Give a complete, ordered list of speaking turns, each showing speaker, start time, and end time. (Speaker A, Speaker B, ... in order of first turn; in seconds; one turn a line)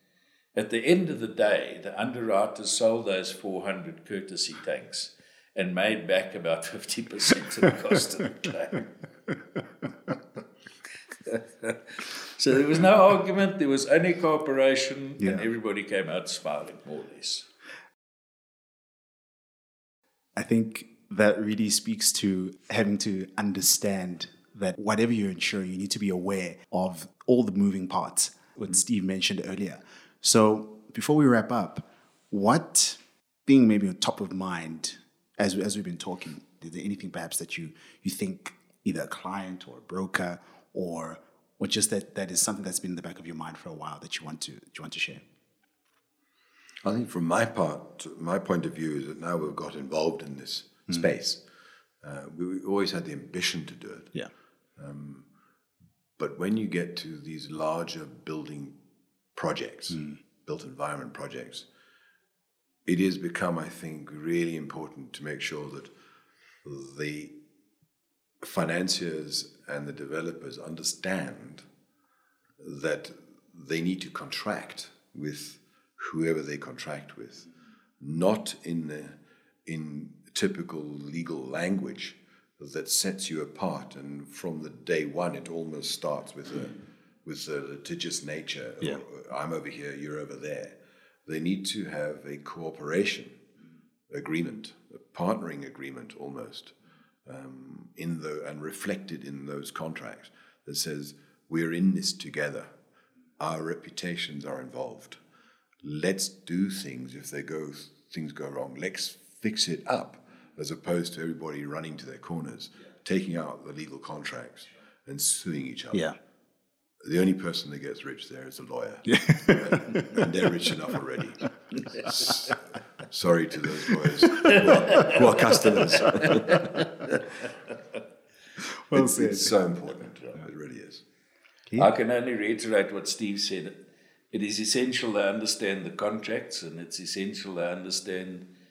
Speaker A: 0.5-9.0
Speaker A: 11.2-17.5
Speaker B: 15.2-15.4
Speaker B: 20.4-45.2
Speaker C: 46.8-51.4
Speaker C: 52.0-54.1
Speaker C: 54.8-55.3
Speaker C: 56.2-58.8
Speaker C: 59.3-61.6
Speaker C: 62.9-65.9
Speaker C: 66.6-67.3
Speaker C: 68.4-71.6
Speaker C: 72.6-77.5
Speaker C: 78.0-93.4
Speaker C: 94.1-96.7
Speaker C: 97.2-102.7
Speaker C: 103.4-105.2
Speaker C: 105.8-116.1
Speaker C: 117.0-126.9
Speaker B: 119.0-120.2
Speaker A: 124.5-125.5
Speaker A: 126.4-127.2
Speaker B: 128.9-129.5
Speaker C: 128.9-131.0
Speaker A: 131.8-138.5